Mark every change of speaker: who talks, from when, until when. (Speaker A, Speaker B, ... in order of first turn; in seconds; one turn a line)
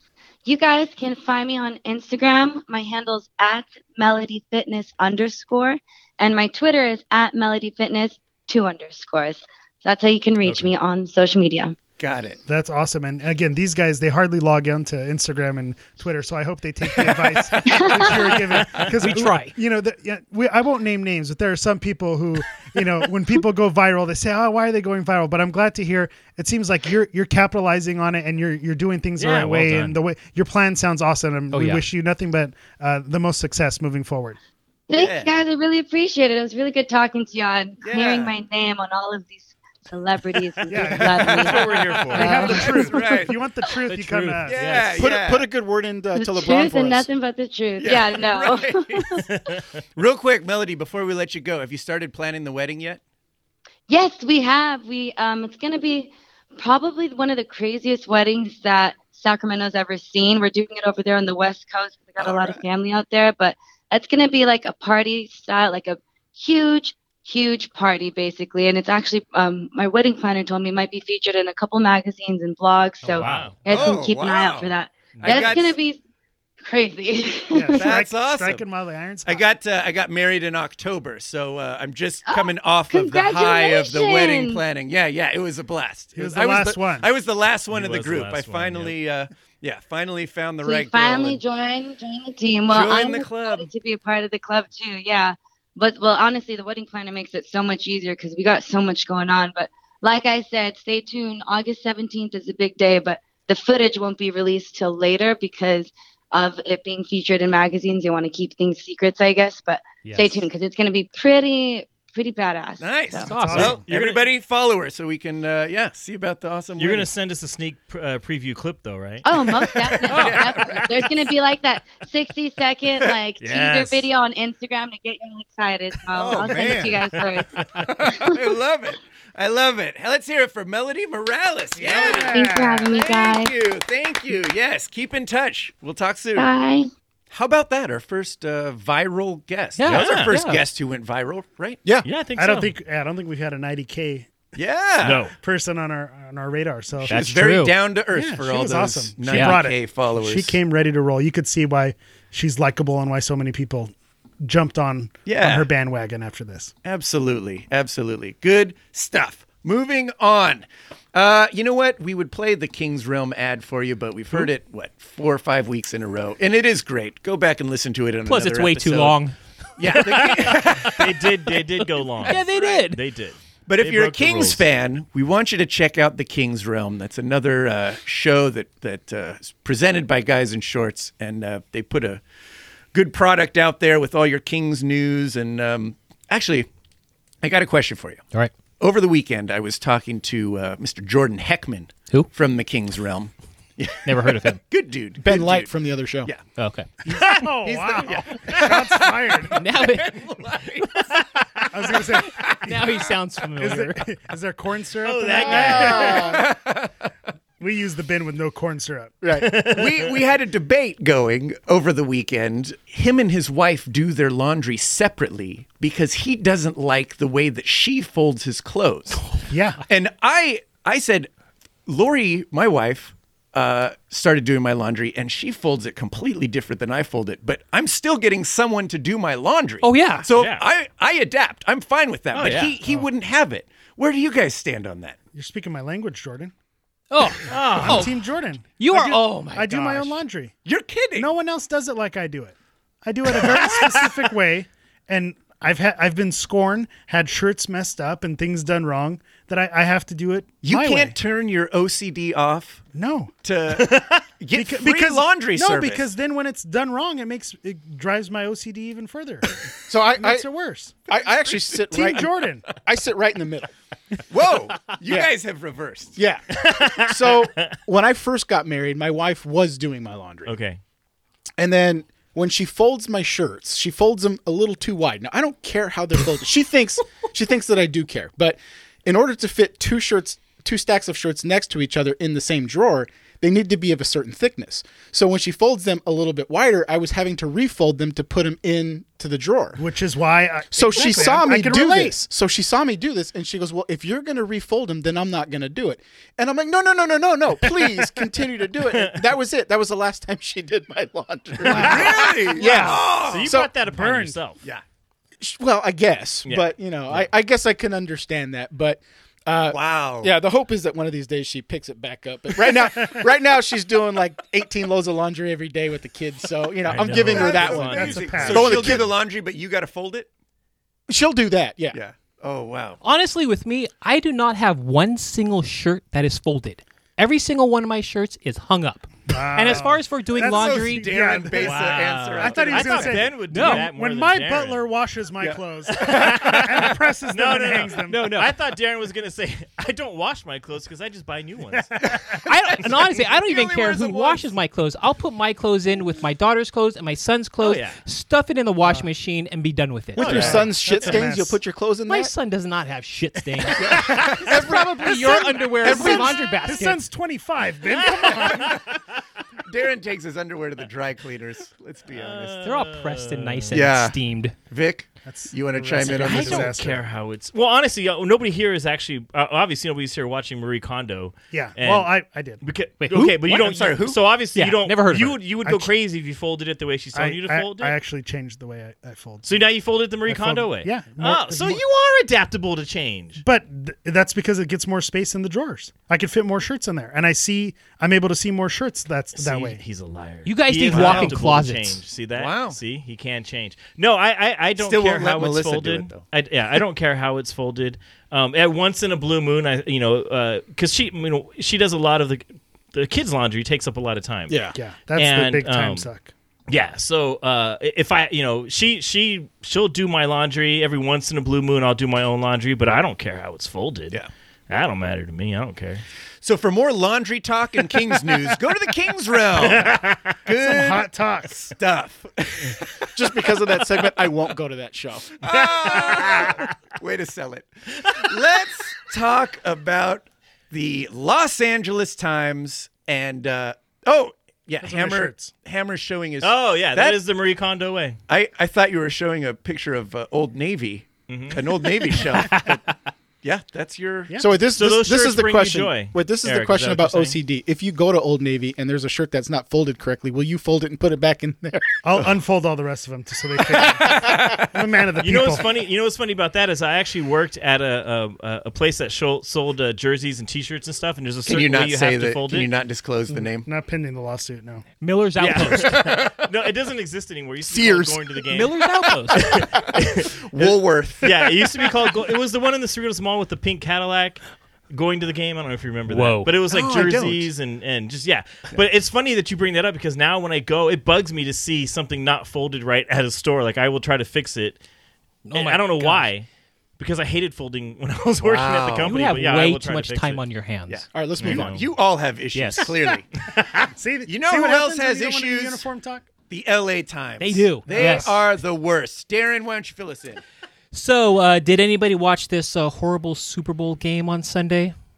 Speaker A: 0.5-11.8
Speaker B: 10.4-10.7
Speaker C: 12.0-12.4
Speaker D: 12.5-34.4
Speaker A: 17.6-18.1
Speaker B: 18.5-18.9
Speaker E: 18.9-19.5
Speaker B: 29.2-29.9
Speaker E: 31.5-31.8
Speaker A: 34.9-41.6
Speaker C: 35.0-35.3
Speaker C: 37.8-38.3
Speaker D: 40.7-44.8
Speaker B: 41.3-42.8
Speaker A: 42.1-42.6
Speaker C: 42.2-43.3
Speaker E: 43.9-45.1
Speaker C: 44.5-45.5
Speaker F: 45.0-47.1
Speaker A: 46.1-49.2
Speaker C: 47.8-49.2
Speaker B: 49.3-49.6
Speaker C: 50.0-53.0
Speaker A: 53.9-76.0
Speaker C: 62.2-62.6
Speaker E: 73.0-73.6
Speaker B: 73.2-73.5
Speaker C: 73.6-75.8
Speaker B: 75.2-75.5
Speaker A: 76.6-77.9
Speaker D: 77.5-79.4
Speaker C: 77.8-78.6
Speaker C: 79.2-91.4
Speaker A: 82.2-84.6
Speaker D: 86.1-87.1
Speaker B: 87.7-89.0
Speaker A: 90.6-113.3
Speaker C: 92.7-93.7
Speaker E: 110.0-110.4
Speaker C: 112.8-117.1
Speaker E: 113.2-113.8
Speaker D: 113.3-113.8
Speaker B: 113.5-114.3
Speaker B: 116.8-119.2
Speaker A: 119.2-127.5
Speaker C: 119.3-121.0
Speaker E: 120.1-120.5
Speaker B: 123.4-124.1
Speaker C: 126.1-127.2
Speaker B: 127.2-127.9
Speaker C: 127.8-136.5
Speaker A: 128.0-128.4
Speaker D: 131.8-132.9
Speaker A: 131.8-133.5
Speaker A: 136.3-136.9
Speaker C: 137.3-141.8
Speaker E: 139.8-140.7
Speaker B: 139.9-140.3
Speaker B: 142.0-142.7
Speaker D: 142.4-144.3
Speaker C: 144.5-145.2
Speaker B: 145.0-145.3
Speaker D: 145.4-147.1
Speaker E: 147.1-147.8
Speaker C: 147.1-150.6
Speaker D: 148.1-156.7
Speaker E: 149.3-149.6
Speaker C: 155.3-155.7
Speaker C: 156.8-169.2
Speaker E: 168.2-169.3
Speaker C: 169.8-171.1
Speaker E: 169.9-173.0
Speaker B: 170.1-174.6
Speaker C: 172.2-172.8
Speaker C: 173.7-182.2
Speaker C: 182.9-186.7
Speaker C: 187.4-188.2
Speaker C: 188.8-195.7
Speaker E: 194.1-194.6
Speaker F: 195.2-196.3
Speaker E: 196.5-196.9
Speaker D: 197.1-199.6
Speaker B: 197.1-197.5
Speaker C: 197.2-201.2
Speaker B: 198.5-198.7
Speaker E: 199.5-200.2
Speaker D: 201.7-202.8
Speaker C: 201.9-202.9
Speaker E: 202.6-204.0
Speaker D: 203.6-206.4
Speaker B: 205.0-206.3
Speaker F: 205.3-206.4
Speaker C: 206.1-207.1
Speaker D: 207.6-209.2
Speaker F: 209.2-209.6
Speaker B: 209.3-210.1
Speaker C: 209.7-219.2
Speaker D: 219.5-219.8
Speaker C: 219.9-221.3
Speaker C: 221.8-235.2
Speaker E: 229.8-230.3
Speaker B: 230.3-230.6
Speaker B: 232.3-232.7
Speaker D: 235.3-236.5
Speaker E: 237.1-238.1
Speaker B: 237.5-238.1
Speaker D: 237.8-240.5
Speaker E: 238.8-240.1
Speaker C: 240.6-241.3
Speaker D: 241.1-251.1
Speaker C: 243.3-244.1
Speaker C: 250.6-252.8
Speaker D: 252.9-253.3
Speaker C: 253.4-256.1
Speaker B: 253.7-254.2
Speaker D: 254.5-259.6
Speaker F: 259.9-260.5
Speaker D: 260.1-260.9
Speaker F: 261.1-262.3
Speaker C: 261.1-261.8
Speaker D: 261.9-262.7
Speaker F: 262.8-263.7
Speaker C: 264.3-266.2
Speaker F: 265.1-265.3
Speaker F: 266.1-270.5
Speaker B: 266.6-267.7
Speaker B: 270.4-270.8
Speaker F: 271.6-289.8
Speaker D: 289.8-292.1
Speaker F: 290.7-303.7
Speaker B: 298.9-299.2
Speaker D: 301.6-303.0
Speaker B: 301.7-301.9
Speaker C: 301.7-303.5
Speaker B: 303.2-304.6
Speaker D: 303.6-304.4
Speaker F: 305.4-319.1
Speaker B: 306.5-307.3
Speaker C: 309.7-310.3
Speaker B: 316.9-319.0
Speaker C: 317.0-320.3
Speaker D: 317.1-319.0
Speaker F: 321.1-322.0
Speaker C: 321.9-323.0
Speaker E: 323.0-331.1
Speaker D: 329.3-338.3
Speaker C: 330.4-333.3
Speaker B: 331.5-334.8
Speaker E: 333.5-333.9
Speaker C: 335.4-336.6
Speaker B: 335.9-341.9
Speaker E: 338.1-338.5
Speaker D: 341.7-342.4
Speaker C: 342.4-344.5
Speaker E: 342.4-350.6
Speaker B: 347.6-348.0
Speaker F: 350.2-352.3
Speaker B: 350.2-351.1
Speaker D: 350.2-351.6
Speaker E: 352.1-357.0
Speaker C: 353.8-354.5
Speaker F: 354.0-356.4
Speaker D: 354.5-358.8
Speaker B: 358.2-358.7
Speaker C: 358.3-358.8
Speaker C: 359.6-362.6
Speaker B: 362.1-363.8
Speaker E: 362.6-364.5
Speaker C: 363.7-366.8
Speaker D: 365.2-367.0
Speaker B: 366.0-377.9
Speaker D: 371.5-372.6
Speaker E: 373.0-373.4
Speaker C: 373.2-374.2
Speaker E: 374.5-375.4
Speaker D: 377.1-379.6
Speaker B: 379.4-383.4
Speaker D: 380.2-381.8
Speaker D: 383.4-389.8
Speaker B: 389.4-404.6
Speaker E: 390.4-392.0
Speaker C: 390.9-391.4
Speaker C: 392.3-392.8
Speaker C: 394.8-396.2
Speaker F: 404.5-404.8
Speaker D: 404.7-406.3
Speaker B: 405.1-406.1
Speaker B: 406.7-416.0
Speaker C: 416.4-423.2
Speaker B: 419.5-420.3
Speaker D: 419.6-420.0
Speaker D: 420.5-421.7
Speaker F: 423.1-425.3
Speaker C: 425.4-437.2
Speaker D: 425.7-426.6
Speaker D: 434.8-435.5
Speaker B: 436.4-438.2
Speaker C: 438.3-442.9
Speaker B: 441.3-441.6
Speaker C: 443.4-444.4
Speaker F: 444.4-452.0
Speaker B: 444.7-447.4
Speaker D: 452.0-455.7
Speaker F: 454.0-454.4
Speaker C: 454.0-454.7
Speaker B: 455.2-462.7
Speaker C: 461.4-463.7
Speaker D: 463.4-464.9
Speaker E: 465.0-466.2
Speaker B: 465.4-468.8
Speaker F: 467.6-468.3
Speaker E: 468.5-469.6
Speaker B: 469.3-484.8
Speaker C: 470.2-471.5
Speaker E: 476.1-476.6
Speaker C: 476.7-477.5
Speaker E: 485.4-486.3
Speaker B: 485.5-486.5
Speaker B: 487.0-490.4
Speaker C: 488.4-489.2
Speaker E: 489.0-491.1
Speaker C: 490.9-493.4
Speaker F: 491.1-491.7
Speaker B: 491.4-491.8
Speaker E: 492.5-493.0
Speaker D: 493.9-496.2
Speaker C: 494.3-495.8
Speaker C: 496.5-500.4
Speaker E: 497.4-498.4
Speaker E: 500.9-504.9